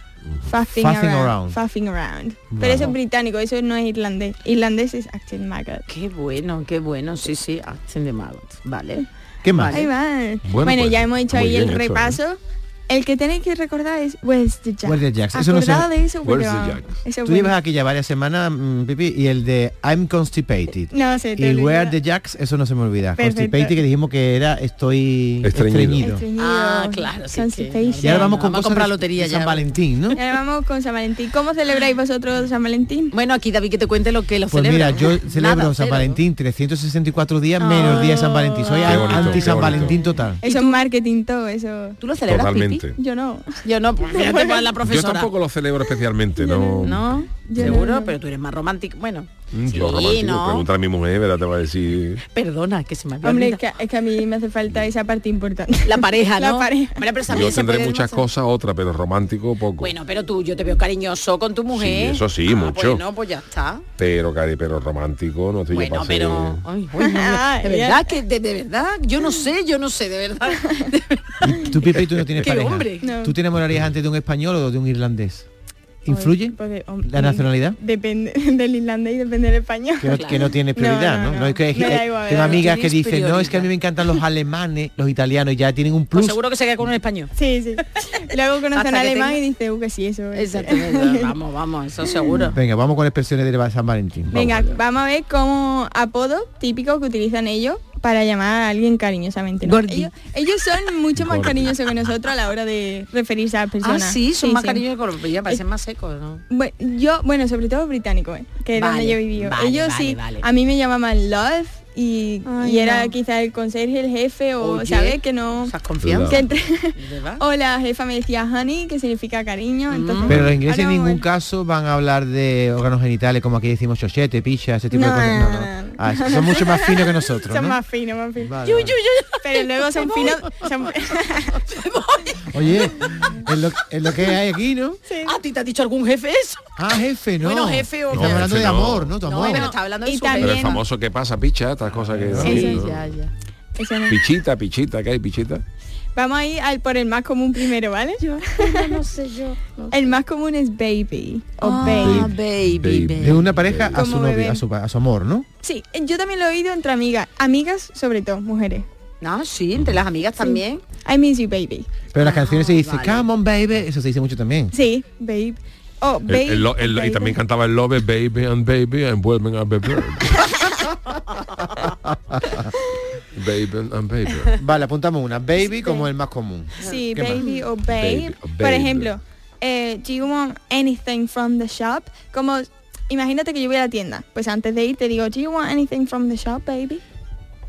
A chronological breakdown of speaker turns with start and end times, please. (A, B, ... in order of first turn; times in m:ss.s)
0:00.5-0:05.8 A
0:00.7-0:01.6 B
0:02.5-0:02.9 B
0:02.6-0:02.9 C
0:05.9-0:09.9 D
0:09.4-0:09.8 B
0:09.7-0:17.6 A
0:10.4-0:12.2 C
0:14.8-0:15.9 B
0:16.2-0:17.0 C
0:17.2-0:26.2 B
0:20.9-0:22.0 A
0:23.2-0:23.8 A
0:25.4-0:26.1 C
0:26.0-0:28.4 A
0:26.4-0:29.7 D
0:28.0-0:30.2 B
0:30.1-0:33.1 A
0:33.1-0:36.2 D
0:34.5-0:40.4 B
0:37.6-0:40.8 D
0:37.8-0:38.9 A
0:38.8-0:40.0 C
0:40.4-0:42.0 A
0:42.0-0:42.8 D
0:42.3-0:43.0 C
0:43.0-0:44.7 A
0:43.6-0:45.3 D
0:44.8-0:47.0 C
0:46.4-0:48.2 A
0:46.8-0:50.7 D
0:49.5-0:52.2 C
0:52.3-0:53.7 D
0:53.2-0:57.0 A
0:55.8-0:58.2 D
0:57.3-0:59.9 C
0:59.8-1:03.8 D
1:01.7-1:03.0 C
1:04.0-1:06.6 C
1:05.7-1:11.7 D
1:07.0-1:08.2 A
1:11.4-1:15.5 B
1:12.4-1:13.1 D
1:13.0-1:13.4 A
1:16.0-1:17.8 B
1:16.1-1:22.7 A
1:20.0-1:26.4 B
1:20.1-1:20.4 D
1:22.4-1:23.7 D
1:26.1-1:27.3 D
1:27.4-1:31.3 A
1:28.7-1:29.4 D
1:30.3-1:32.6 D
1:32.5-1:34.4 B
1:34.3-1:44.8 A
1:34.3-1:34.7 C
1:39.6-1:40.1 D
1:41.2-1:41.7 C
1:43.8-1:46.4 D
1:46.5-1:55.7 A
1:48.7-1:50.5 D
1:52.4-1:53.1 D
1:54.6-1:56.4 D
1:56.0-1:56.4 C
1:56.3-2:01.2 A
1:56.9-1:57.4 D
1:59.9-2:00.4 D
2:00.3-2:07.8 B
2:00.3-2:00.6 C
2:04.9-2:08.6 A
2:08.4-2:09.0 B
2:08.6-2:10.7 D
2:09.4-2:11.6 A
2:11.5-2:13.3 D
2:12.5-2:15.0 B
2:15.1-2:15.4 A
2:15.2-2:16.7 D
2:16.8-2:19.7 B
2:17.4-2:18.4 D
2:18.1-2:19.1 C
2:19.2-2:20.8 D
2:19.4-2:20.8 A
2:20.4-2:23.0 C
2:22.1-2:22.6 B
2:22.4-2:23.3 D
2:22.4-2:22.8 A
2:23.8-2:24.2 A
2:24.1-2:25.6 C
2:26.2-2:29.0 A
2:28.2-2:30.2 D
2:29.9-2:32.3 A
2:31.6-2:33.5 D
2:31.8-2:34.0 C
2:33.2-2:35.5 B
2:33.9-2:34.6 A
2:35.6-2:38.9 A
2:39.2-2:40.8 D
2:40.4-2:41.9 A
2:42.1-2:44.8 B
2:42.2-2:43.3 D
2:44.7-2:47.4 A
2:46.3-2:50.5 C
2:52.3-2:52.6 B
2:53.3-2:54.6 C
2:54.6-2:57.4 B
2:55.6-2:56.1 A
2:56.8-2:57.6 D
2:56.8-3:07.0 A
2:57.9-2:59.1 C